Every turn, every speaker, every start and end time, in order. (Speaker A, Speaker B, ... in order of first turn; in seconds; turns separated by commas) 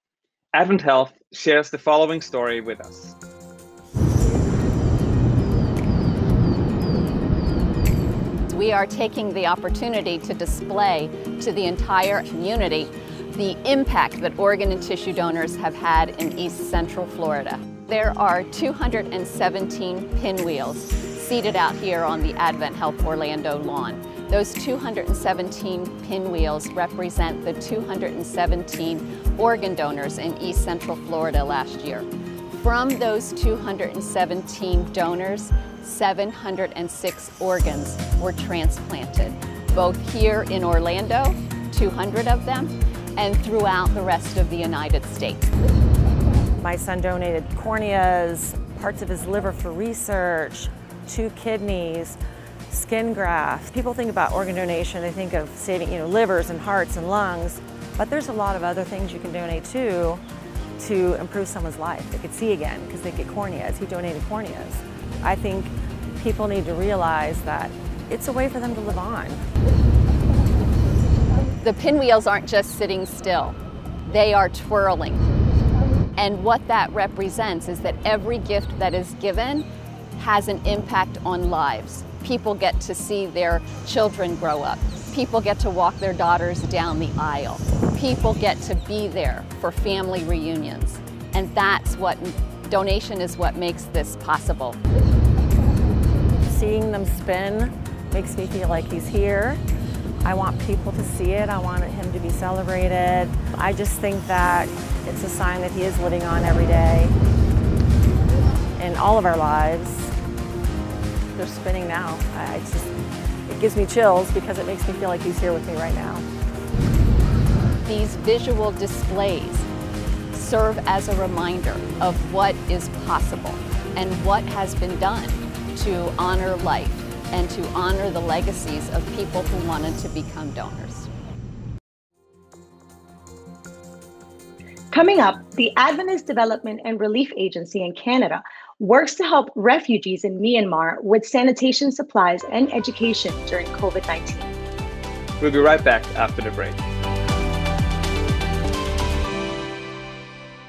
Speaker A: 0.5-3.1, Speaker B: 8.5-32.1, Speaker B: 32.6-45.5, Speaker C: 46.6-52.2, Speaker C: 52.7-60.2, Speaker C: 60.8-69.4, Speaker B: 71.6-75.2, Speaker B: 76.2-94.8, Speaker C: 96.5-99.6, Speaker C: 100.2-107.1, Speaker C: 108.8-110.1, Speaker C: 111.3-112.9, Speaker C: 113.5-116.2, Speaker B: 117.8-119.7, Speaker B: 120.3-131.1, Speaker D: 134.9-144.5, Speaker A: 145.4-146.8